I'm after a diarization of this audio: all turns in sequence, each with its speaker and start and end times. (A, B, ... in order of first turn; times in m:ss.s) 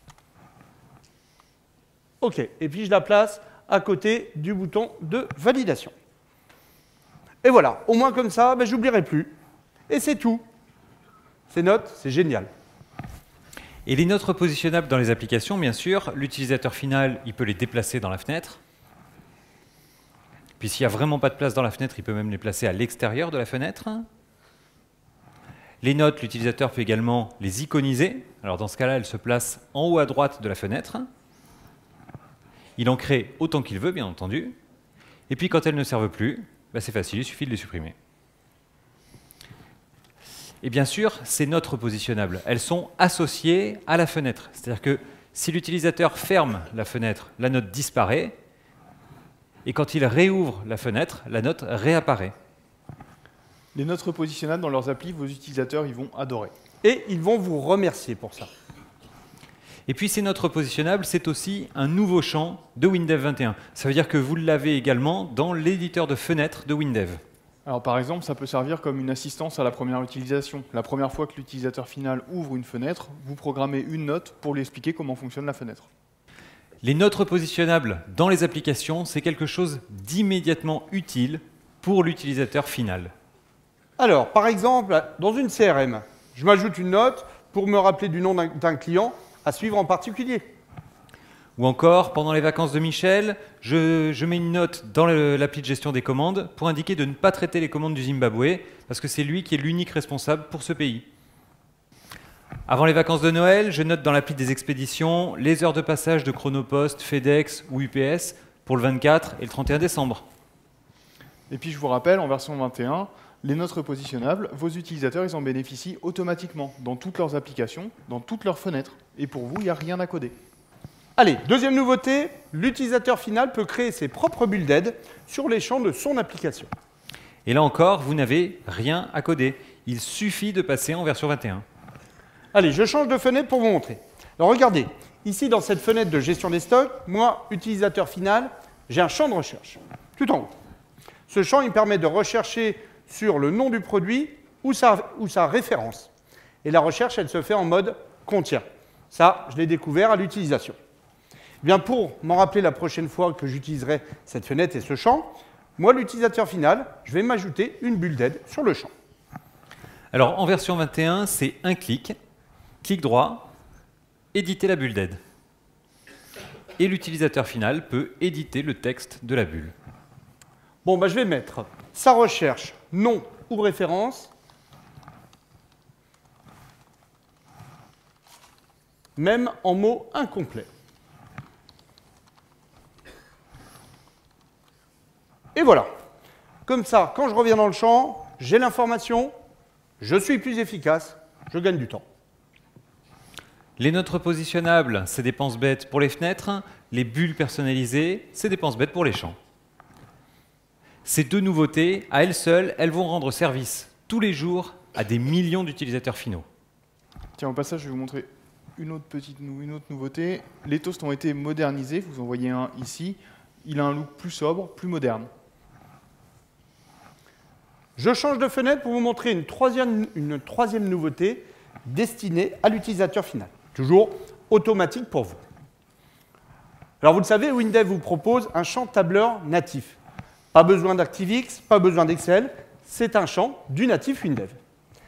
0:02.2-0:05.9 A
0:07.4-0:09.4 A
0:09.9-0:10.4 A
0:11.5-0:12.5 A
0:13.8-0:18.6 B
0:20.6-0:24.0 B
0:25.8-0:31.1 B
0:32.8-0:34.6 B
0:35.3-0:37.9 B
0:40.6-0:48.3 B
0:49.6-0:52.3 B
0:53.7-0:56.5 C
0:56.8-0:58.5 A
0:59.9-1:07.2 B
1:07.6-1:15.9 C
1:16.8-1:23.1 B
1:24.0-1:30.4 A
1:31.6-1:41.0 B
1:42.7-1:50.2 B
1:51.5-2:00.3 C
2:01.2-2:06.7 A
2:07.4-2:11.6 B
2:12.5-2:20.5 A
2:21.3-2:26.1 A
2:26.6-2:30.8 A
2:31.6-2:38.9 A
2:40.1-2:42.1 B
2:42.8-2:43.5 B
2:44.3-2:45.2 B
2:46.8-2:49.7 B
2:50.8-2:54.3 A
2:59.2-3:00.7 A
3:05.5-3:05.9 A
3:06.7-3:09.3 A
3:10.0-3:12.0 A
3:13.8-3:19.4 B
3:21.0-3:26.4 B
3:27.4-3:35.3 C
3:38.0-3:45.4 A
3:47.0-3:50.0 A
3:50.5-3:54.6 A